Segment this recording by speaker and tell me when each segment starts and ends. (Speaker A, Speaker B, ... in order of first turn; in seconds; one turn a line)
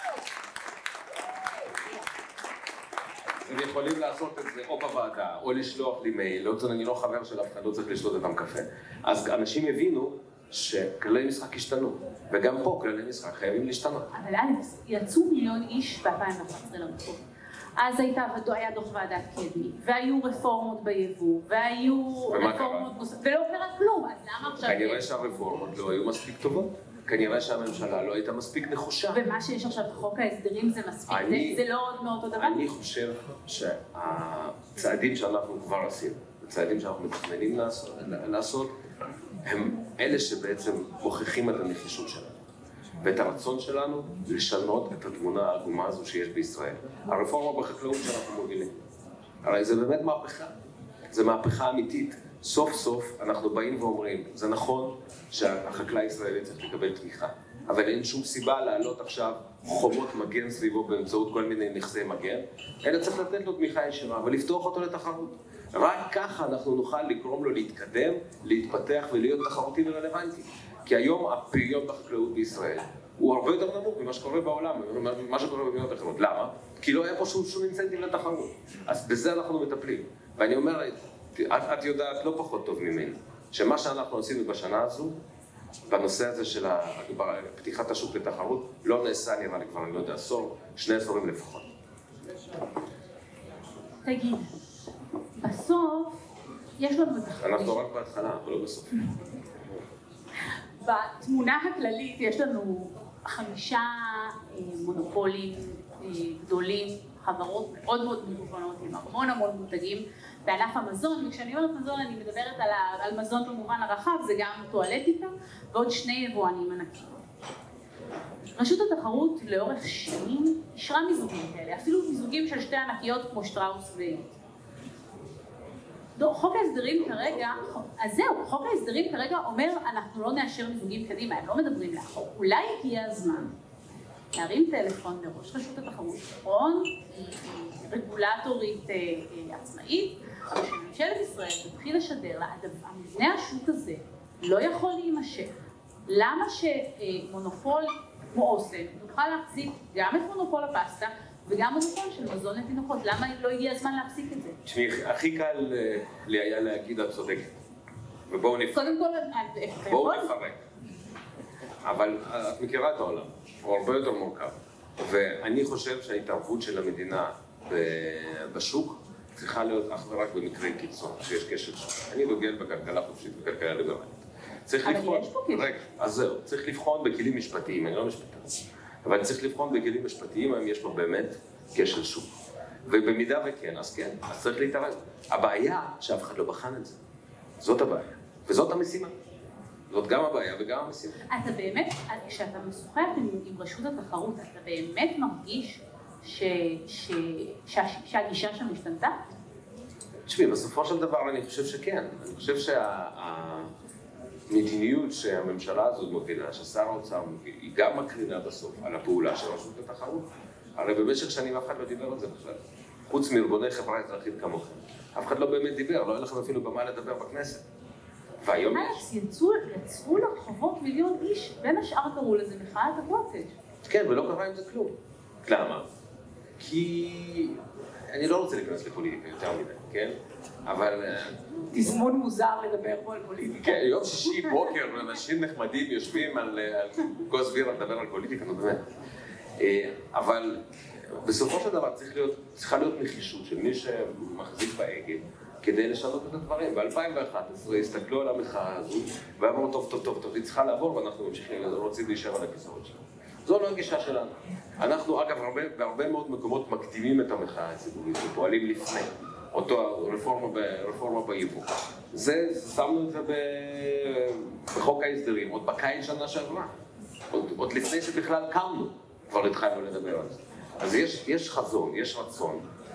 Speaker A: 3.4-14.1
Speaker B: 14.1-17.2
Speaker B: 17.8-25.0
Speaker A: 22.3-22.9
Speaker A: 24.6-29.2
Speaker B: 29.1-32.6
Speaker A: 31.1-31.6
Speaker A: 32.4-38.7
Speaker A: 39.4-42.3
Speaker A: 43.0-48.7
Speaker A: 49.4-50.5
Speaker A: 51.1-85.2
Speaker A: 85.9-91.7
Speaker B: 94.0-94.5
Speaker B: 95.4-96.2
Speaker B: 96.8-97.8
Speaker A: 97.4-99.1
Speaker B: 100.8-117.2
Speaker B: 118.5-124.3
Speaker B: 126.2-133.5
Speaker B: 134.3-154.6
Speaker A: 154.6-157.5
Speaker A: 158.3-159.0
Speaker B: 158.7-160.3
Speaker A: 159.9-160.6
Speaker A: 161.8-182.3
Speaker B: 174.8-175.7
Speaker A: 182.9-187.0
Speaker A: 187.6-189.1
Speaker A: 189.9-191.2
Speaker B: 191.3-199.3
Speaker A: 200.3-203.7
Speaker A: 204.5-210.2
Speaker A: 210.8-217.6
Speaker A: 218.4-219.0
Speaker B: 218.7-223.5
Speaker A: 223.9-224.9
Speaker A: 225.4-225.8
Speaker A: 226.6-227.6
Speaker A: 228.1-230.1
Speaker A: 230.7-231.4
Speaker B: 231.7-234.6
Speaker A: 233.6-238.8
Speaker A: 239.6-240.6
Speaker A: 241.1-266.7
Speaker A: 267.3-272.6